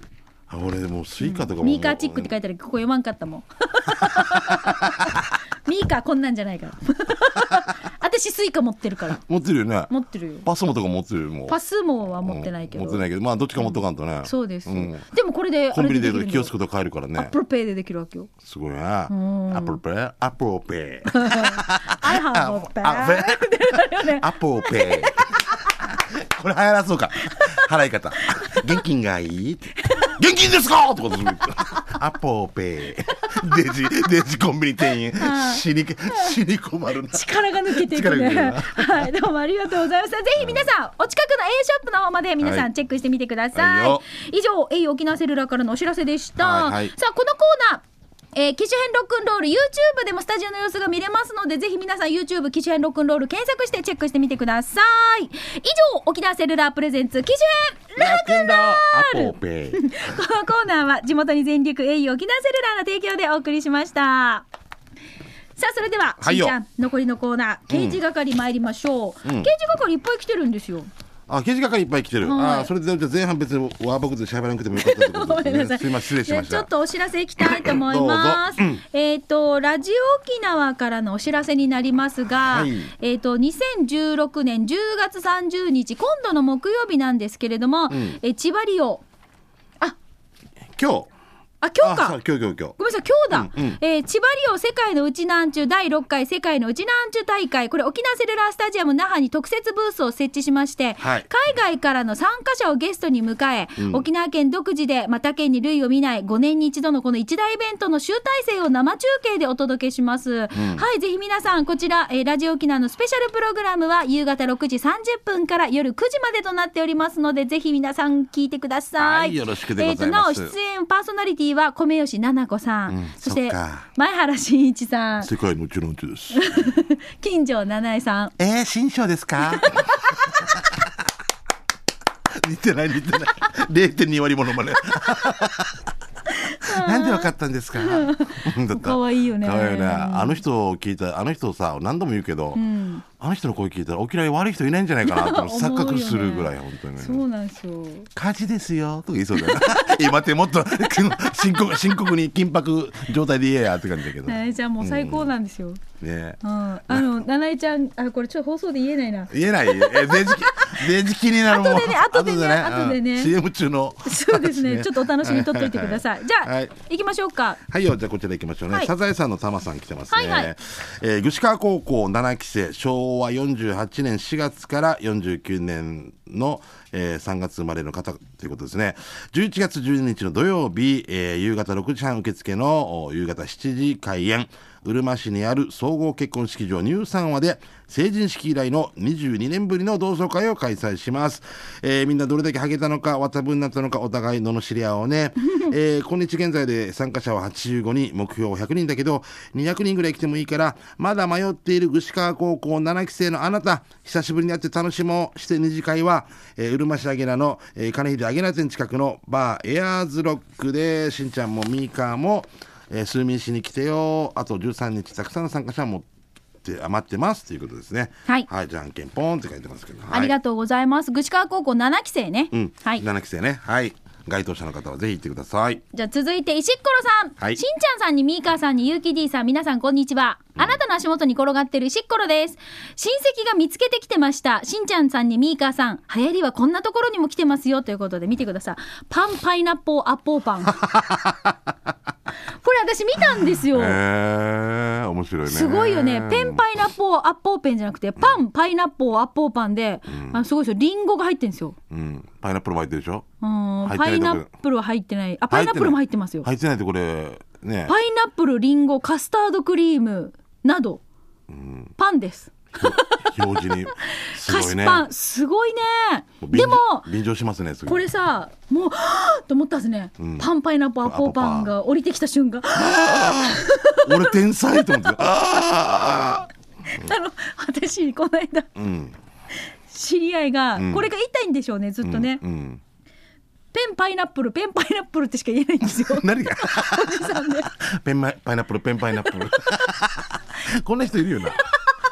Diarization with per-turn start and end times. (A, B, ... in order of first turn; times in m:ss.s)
0:00.5-0:02.3 A
0:01.2-0:09.2 B
0:04.0-0:05.2 A
0:09.2-0:09.9 A
0:09.9-0:10.5 B
0:10.4-0:11.6 A
0:11.5-0:13.0 B
0:12.2-0:15.0 A
0:13.6-0:16.5 B
0:15.7-0:17.3 A
0:17.2-0:18.3 B
0:18.4-0:39.1 A
0:19.1-0:19.8 B
0:21.1-0:25.8 B
0:27.2-0:27.6 B
0:28.2-0:28.6 B
0:29.8-0:30.2 B
0:35.2-0:36.4 B
0:37.1-0:47.8 B
0:40.4-0:40.7 A
0:42.4-0:42.7 A
0:43.5-0:44.0 A
0:46.4-0:46.9 A
0:48.3-1:04.4 B
0:58.0-0:59.9 A
1:05.6-1:10.9 B
1:06.2-1:06.6 A
1:07.7-1:08.0 A
1:09.2-1:09.5 A
1:11.3-1:16.7 A
1:12.2-1:12.7 B
1:14.7-1:29.0 B
1:17.4-1:18.8 A
1:22.5-1:22.9 A
1:27.9-1:28.2 A
1:30.7-1:31.1 A
1:31.6-1:32.2 B
1:31.8-1:32.8 A
1:32.8-2:05.3 B
1:33.3-1:33.8 A
1:41.0-1:41.3 A
1:43.8-1:44.0 A
1:50.5-1:50.8 A
1:59.0-2:00.5 A
2:02.9-2:03.9 A
2:05.2-2:06.7 A
2:06.3-2:08.3 B
2:08.4-2:10.9 A
2:09.6-2:09.8 B
2:12.3-2:15.9 A
2:16.4-2:20.4 B
2:16.6-2:22.6 A
2:22.5-2:23.0 B
2:23.2-2:27.2 A
2:25.0-2:28.1 B
2:28.1-2:35.3 A
2:29.4-2:30.1 B
2:34.2-2:35.8 B
2:36.0-2:37.1 A
2:36.4-2:40.9 B
2:39.3-2:46.7 A
2:41.4-2:43.3 B
2:44.0-2:47.6 B
2:47.7-3:36.1 A
2:50.1-2:50.5 B
3:36.6-3:40.3 A
3:40.1-3:43.0 B
3:42.5-3:45.8 A
3:45.9-4:00.9 B
4:01.1-4:01.3 A
4:02.6-4:04.0 B
4:03.7-4:06.6 A
4:05.5-4:11.7 B
4:10.1-4:10.4 A
4:11.9-4:13.3 A
4:13.4-4:16.5 B
4:13.8-4:14.5 A
4:15.5-4:17.9 A
4:17.9-4:21.0 B
4:21.5-4:21.9 A
4:22.0-4:27.1 B
4:22.8-4:25.0 A
4:26.4-4:28.1 A
4:27.9-4:35.5 B
4:30.2-4:30.5 A
4:31.0-4:31.7 A
4:32.7-4:37.1 A
4:36.9-4:38.7 B
4:38.8-4:39.1 A
4:39.9-4:42.4 B
4:40.8-4:41.1 A
4:42.0-4:42.8 A
4:43.7-4:47.7 B
4:46.0-4:51.6 A